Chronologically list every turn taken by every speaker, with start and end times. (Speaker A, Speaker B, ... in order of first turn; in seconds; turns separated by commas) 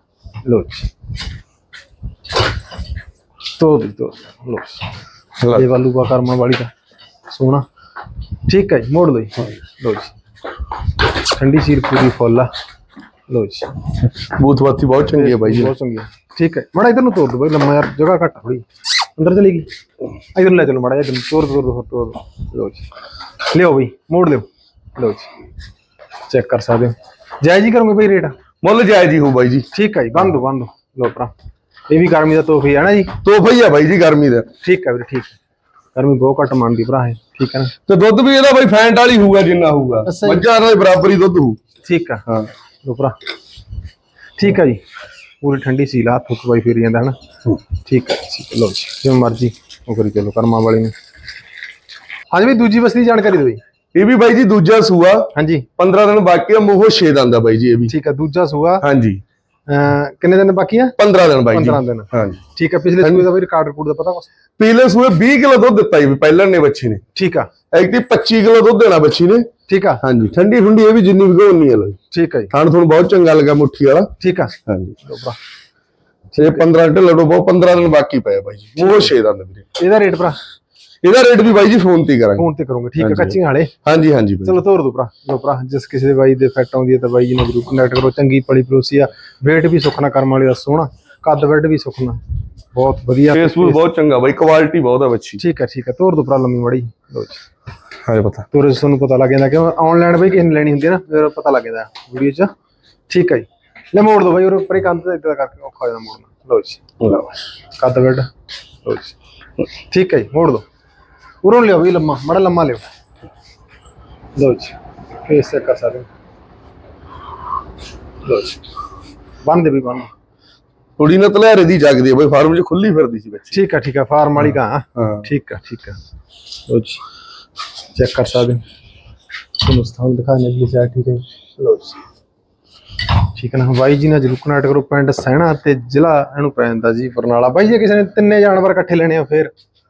Speaker A: 0.5-0.9, Speaker A: 3.6-4.8, Speaker B: 5.4-5.7, Speaker A: 5.5-6.7, Speaker A: 7.3-7.7, Speaker A: 8.5-10.2, Speaker A: 11.3-12.5, Speaker A: 13.3-13.8, Speaker B: 14.2-15.7, Speaker A: 15.1-19.7, Speaker A: 20.3-22.9, Speaker A: 23.5-25.3, Speaker A: 26.3-28.4, Speaker B: 28.6-29.7, Speaker A: 29.7-31.3, Speaker A: 31.9-33.2, Speaker B: 33.2-34.5, Speaker A: 34.6-35.4, Speaker A: 36.0-37.8, Speaker B: 37.9-41.6, Speaker A: 40.1-40.4, Speaker A: 41.8-42.2, Speaker A: 42.8-43.2, Speaker A: 44.4-44.8, Speaker A: 45.4-47.2, Speaker A: 47.7-50.9, Speaker A: 52.3-53.6, Speaker B: 54.0-57.9, Speaker A: 55.3-55.7, Speaker A: 57.9-58.9, Speaker B: 58.8-59.2, Speaker A: 59.7-61.0, Speaker B: 61.0-62.4, Speaker A: 61.5-64.3, Speaker B: 63.0-63.3, Speaker B: 64.6-67.0, Speaker A: 67.2-67.5, Speaker B: 67.7-69.5, Speaker A: 69.7-70.0, Speaker B: 70.0-72.0, Speaker A: 72.1-72.5, Speaker B: 72.5-74.1, Speaker A: 74.2-75.4, Speaker B: 74.7-75.0, Speaker A: 76.3-76.6, Speaker B: 76.4-79.7, Speaker A: 78.8-79.1, Speaker A: 79.8-80.4, Speaker B: 81.0-82.5, Speaker A: 82.4-83.7, Speaker B: 83.0-84.6, Speaker A: 84.4-92.2, Speaker A: 92.7-93.8, Speaker B: 93.3-95.4, Speaker A: 95.4-97.4, Speaker B: 98.0-98.5, Speaker A: 98.5-102.5, Speaker A: 103.1-106.8, Speaker B: 107.0-107.4, Speaker A: 107.8-108.3, Speaker A: 108.8-109.2, Speaker A: 109.9-110.6, Speaker A: 111.4-112.9, Speaker A: 114.4-116.1, Speaker A: 118.2-118.6, Speaker A: 119.4-120.1, Speaker B: 121.0-123.6, Speaker A: 123.5-126.0, Speaker B: 124.4-125.3, Speaker A: 126.7-127.0, Speaker A: 127.9-128.6, Speaker A: 129.6-132.0, Speaker A: 133.3-139.5